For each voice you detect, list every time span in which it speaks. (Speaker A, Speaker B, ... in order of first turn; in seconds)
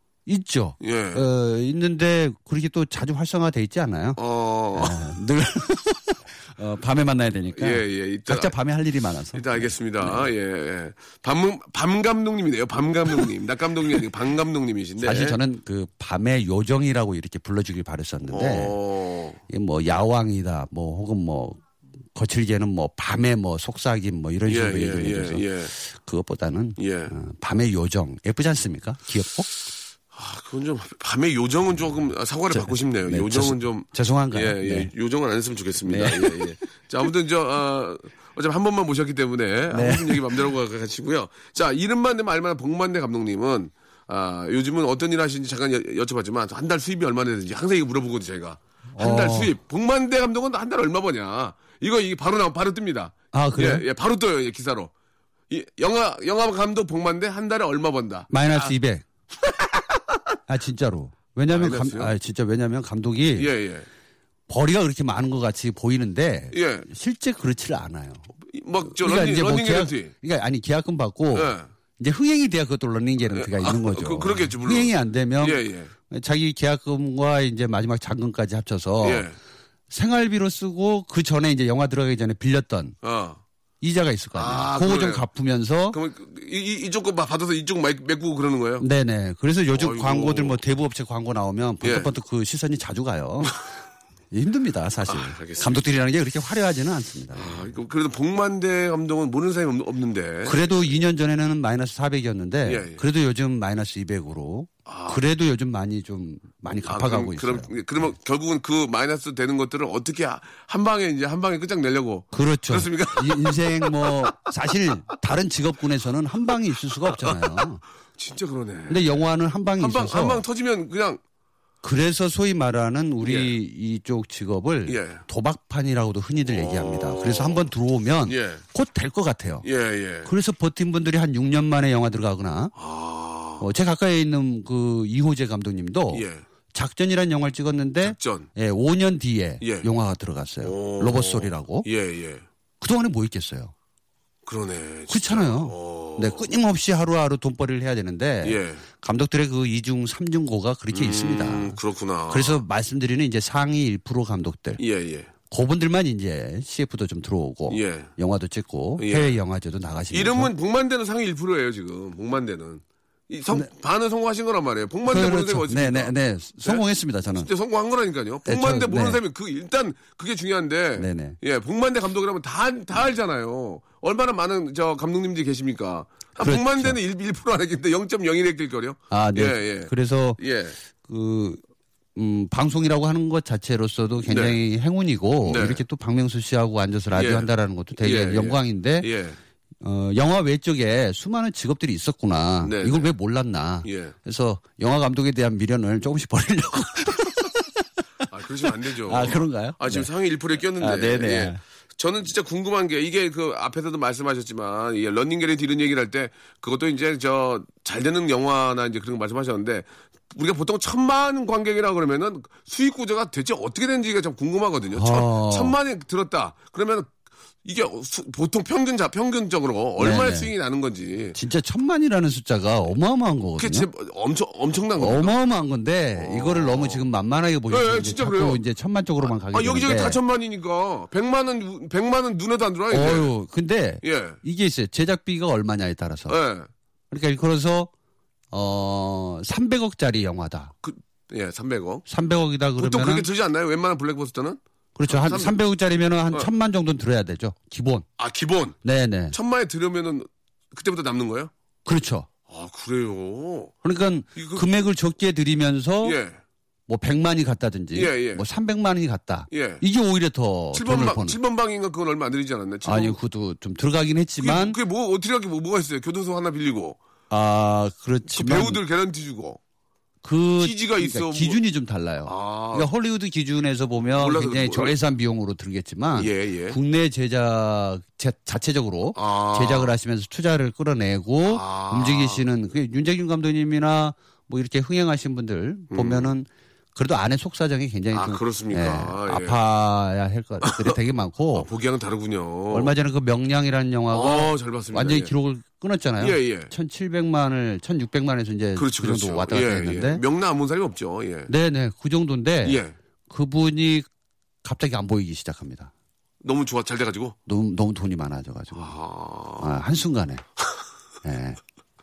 Speaker A: 0.3-4.2, 4.7-10.3, 15.0-18.8, 19.5-21.6, 22.1-29.5, 32.5-34.9, 35.9-36.5, 39.7-40.3, 48.9-49.5, 53.3-53.9, 58.3-59.0, 60.5-63.5, 64.5-68.3, 68.8-79.3, 79.9-83.0, 83.8-86.0, 88.8-93.6, 94.3-97.7, 100.4-108.1, 112.3-117.8, 118.9-120.4, 121.8-129.6, 130.2-132.7, 133.6-141.9, 142.8-143.7, 145.1-154.8, 155.5-160.5, 165.1-167.5, 168.4-169.2, 171.0-171.4, 176.4-177.0, 179.1-180.4, 181.1-181.6, 182.2-189.1, 189.8-197.5, 199.0-200.1, 200.8-201.6, 214.9-215.8, 220.0-220.5, 221.3-223.9, 225.0-230.2, 232.9-236.4, 237.1-237.9, 238.5-240.7, 242.1-243.3, 244.9-248.1, 248.8-249.4, 251.8-252.3, 253.8-256.2, 256.9-261.4, 262.8-264.8, 267.3-268.8, 270.2-291.7, 292.7-300.2, 301.5-304.1, 304.6-305.9, 307.5-308.9, 309.6-310.4, 311.2-311.6
Speaker B: 0.8-1.2, 4.2-5.0, 7.5-8.6, 9.3-15.4, 18.3-19.4, 24.5-25.7, 26.8-27.1, 30.1-54.9, 55.5-58.7, 61.5-62.1, 63.4-63.9, 66.5-66.9, 68.5-70.1, 71.3-71.7, 73.3-75.9, 79.0-79.3, 83.0-83.4, 84.3-85.2, 85.9-88.8, 89.7-90.6, 91.8-92.1, 95.0-95.9, 97.3-100.9, 102.6-103.0, 104.8-105.2, 106.9-114.3, 117.1-117.6, 118.2-119.2, 119.8-121.2, 123.2-123.5, 124.9-125.2, 126.4-127.7, 128.2-128.6, 129.6-130.3, 132.8-133.6, 136.1-136.4, 138.0-138.5, 139.6-139.9, 140.6-142.4, 144.4-146.5, 148.4-148.8, 150.9-152.6, 154.8-155.3, 157.7-158.1, 159.0-159.4, 160.1-166.8, 167.3-180.8, 184.3-184.6, 185.4-185.8, 187.1-189.4, 192.6-193.1, 193.8-194.1, 198.3-217.1, 217.6-221.4, 223.6-225.3, 226.1-227.1, 227.7-228.6, 229.2-233.3, 234.0-234.4, 236.3-236.7, 240.8-242.0, 242.8-245.6, 248.2-248.8, 249.3-251.5, 252.5-253.7, 254.3-254.7, 256.0-256.4, 257.9-258.4, 259.5-259.8, 260.7-263.2, 264.4-267.0, 268.3-269.6, 270.6-271.6, 272.2-272.9, 274.1-274.9, 276.1-276.8, 279.1-279.9, 281.5-282.4, 285.9-286.3, 288.1-289.6, 290.6-290.9, 291.5-292.9, 294.1-295.3, 296.2-296.7, 298.8-301.5, 302.6-302.9, 306.4-307.3, 308.7-309.7